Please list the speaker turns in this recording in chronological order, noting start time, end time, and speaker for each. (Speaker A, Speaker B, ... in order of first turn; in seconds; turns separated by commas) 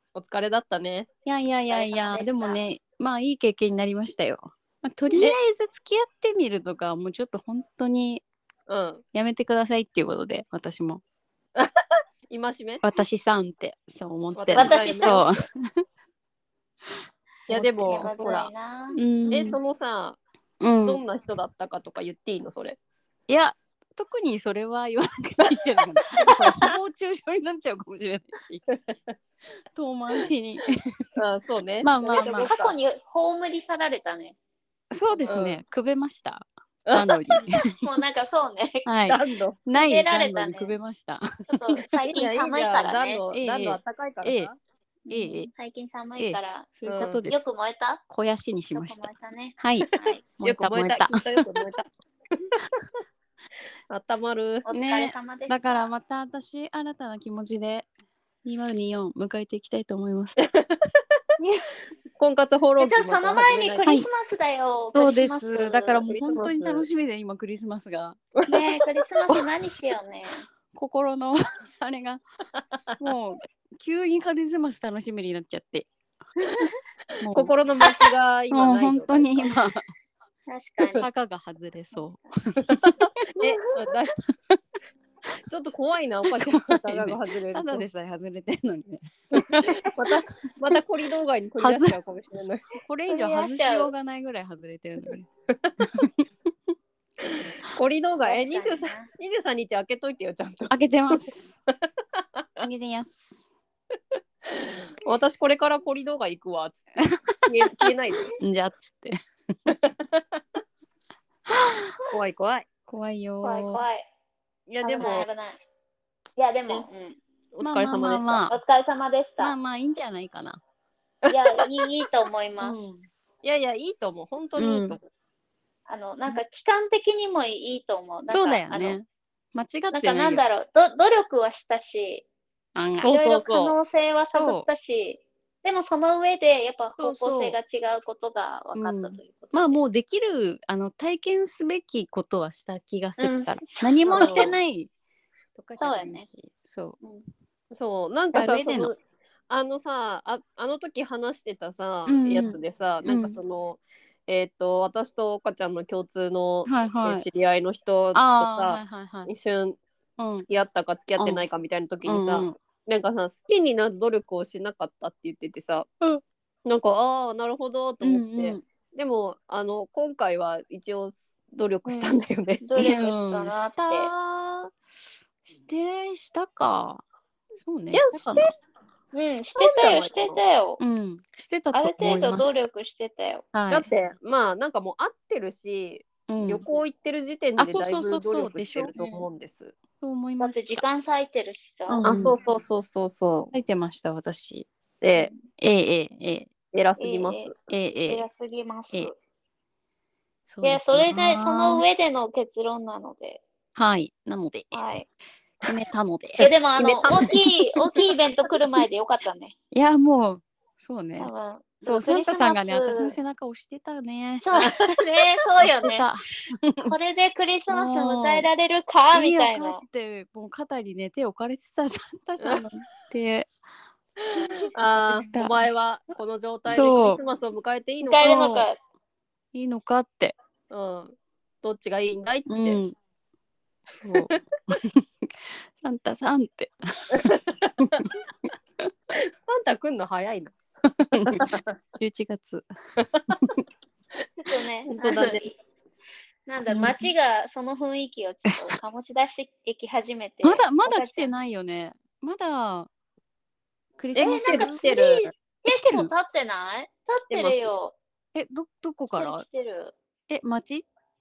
Speaker A: 0.1-1.1, Speaker B: 1.2-8.2, Speaker C: 1.7-2.6, Speaker A: 8.7-9.0, Speaker B: 9.1-11.0, Speaker A: 12.3-12.8, Speaker B: 12.8-15.8, Speaker A: 14.3-15.4, Speaker C: 14.5-15.2, Speaker A: 17.5-18.5, Speaker B: 17.5-18.2, Speaker C: 17.8-19.6, Speaker B: 18.9-19.6, Speaker A: 19.3-20.2, Speaker B: 20.6-21.0, Speaker A: 20.8-22.8, Speaker B: 23.3-28.6, Speaker A: 28.7-29.1, Speaker B: 29.7-31.0, Speaker A: 31.2-32.8, Speaker B: 31.8-32.5, Speaker C: 32.0-34.4, Speaker B: 34.9-37.7, Speaker A: 35.3-35.6, Speaker A: 36.9-37.3, Speaker C: 37.3-38.9, Speaker B: 38.9-41.5, Speaker A: 39.1-39.6, Speaker C: 39.7-40.8, Speaker C: 41.5-43.2, Speaker A: 42.0-44.5, Speaker B: 43.3-44.5, Speaker C: 45.1-46.7, Speaker B: 45.1-45.5, Speaker B: 46.2-47.5, Speaker A: 46.9-47.2, Speaker C: 47.3-48.0, Speaker B: 48.1-49.9, Speaker C: 48.7-50.2, Speaker A: 50.0-51.9, Speaker B: 50.4-51.6, Speaker A: 53.9-54.7, Speaker C: 54.7-55.8, Speaker B: 54.7-57.9, Speaker B: 58.5-60.4, Speaker A: 60.4-60.9, Speaker C: 61.4-61.7, Speaker A: 62.2-63.9, Speaker C: 62.8-66.0, Speaker B: 64.9-68.2, Speaker A: 66.1-66.9, Speaker A: 68.4-68.8, Speaker C: 68.5-70.5, Speaker B: 70.7-72.2, Speaker A: 72.6-72.9, Speaker B: 73.0-75.9, Speaker A: 77.2-79.5, Speaker B: 77.2-77.5, Speaker C: 77.8-78.1, Speaker B: 78.5-79.9, Speaker C: 80.5-81.1, Speaker B: 81.0-83.0, Speaker A: 82.6-84.2, Speaker A: 85.5-87.8, Speaker B: 86.3-90.1, Speaker A: 89.4-92.7, Speaker B: 91.6-92.0, Speaker B: 92.8-95.3, Speaker C: 93.1-93.9, Speaker A: 95.5-95.8, Speaker B: 95.9-96.7, Speaker A: 97.6-101.3, Speaker C: 98.2-99.1, Speaker B: 100.7-101.5, Speaker A: 102.2-102.7, Speaker B: 102.6-103.3, Speaker A: 104.5-106.8, Speaker B: 107.0-109.7, Speaker A: 107.5-108.3, Speaker A: 109.7-110.6, Speaker A: 112.1-112.7, Speaker B: 112.9-113.8, Speaker C: 113.4-114.1, Speaker A: 114.7-115.3, Speaker C: 114.8-115.6, Speaker C: 116.4-117.2, Speaker A: 117.5-118.5, Speaker B: 117.6-118.6, Speaker C: 118.5-119.5, Speaker B: 119.4-120.6, Speaker A: 121.2-121.6, Speaker C: 121.3-122.8, Speaker B: 122.6-123.1, Speaker A: 123.4-125.1, Speaker B: 124.6-125.0, Speaker C: 125.9-129.0, Speaker B: 128.3-130.4, Speaker C: 129.9-132.2, Speaker B: 132.8-133.1, Speaker A: 133.0-133.8, Speaker C: 133.1-139.8, Speaker B: 134.3-134.7, Speaker B: 137.0-137.6, Speaker B: 138.8-144.9, Speaker C: 143.2-144.6, Speaker A: 144.1-144.6, Speaker B: 145.6-147.0, Speaker C: 145.8-146.3, Speaker A: 147.7-149.0, Speaker B: 148.3-148.9, Speaker A: 149.5-159.8, Speaker B: 152.1-153.4, Speaker B: 156.7-157.3, Speaker B: 158.2-159.3, Speaker B: 160.2-160.5, Speaker A: 160.5-166.0, Speaker B: 161.2-161.4, Speaker B: 162.1-162.6, Speaker A: 166.7-172.7, Speaker B: 168.0-168.6, Speaker C: 171.9-174.1, Speaker B: 172.8-174.7, Speaker B: 175.4-177.0, Speaker B: 177.6-178.5, Speaker A: 177.9-178.5, Speaker C: 179.1-180.8, Speaker A: 179.6-180.4, Speaker B: 180.8-182.5, Speaker C: 181.7-183.4, Speaker B: 183.5-183.9, Speaker A: 183.7-189.8, Speaker B: 186.3-186.6, Speaker B: 187.6-188.9, Speaker C: 189.0-189.2, Speaker B: 190.0-190.8, Speaker C: 190.4-192.1, Speaker B: 191.9-192.4, Speaker A: 192.0-193.5, Speaker B: 193.5-194.7, Speaker A: 195.0-195.3, Speaker C: 195.2-195.4, Speaker B: 195.6-196.5, Speaker A: 196.7-197.5, Speaker C: 197.0-197.5, Speaker B: 197.7-198.3, Speaker C: 198.1-199.2, Speaker B: 200.5-201.8, Speaker C: 200.6-203.4, Speaker B: 203.8-204.8, Speaker C: 204.7-205.1, Speaker B: 205.7-206.4, Speaker A: 206.4-207.4, Speaker C: 206.4-209.5, Speaker B: 209.7-211.3, Speaker C: 211.2-213.2, Speaker B: 211.8-214.5, Speaker C: 214.4-216.1, Speaker A: 214.6-215.0, Speaker B: 215.6-216.9, Speaker C: 216.9-219.8, Speaker B: 217.7-218.5, Speaker B: 219.1-223.5, Speaker A: 224.2-228.4, Speaker B: 224.9-225.7, Speaker B: 226.7-227.2, Speaker C: 228.0-228.8, Speaker B: 228.2-228.7, Speaker B: 229.5-230.4, Speaker A: 230.7-232.8, Speaker B: 232.5-232.9, Speaker B: 233.9-238.1, Speaker A: 234.1-234.4, Speaker A: 237.1-238.1, Speaker A: 239.1-240.6, Speaker B: 240.9-241.5, Speaker A: 241.2-241.8, Speaker B: 242.0-242.7, Speaker A: 243.0-243.4, Speaker C: 244.4-245.6, Speaker A: 244.9-245.4, Speaker C: 246.5-251.3, Speaker B: 246.7-247.1, Speaker B: 250.4-252.9, Speaker B: 254.0-254.8, Speaker A: 254.2-255.3, Speaker C: 254.2-258.0, Speaker B: 255.7-256.1, Speaker A: 257.3-257.7, Speaker B: 258.3-259.4, Speaker C: 259.2-259.9, Speaker B: 260.3-260.9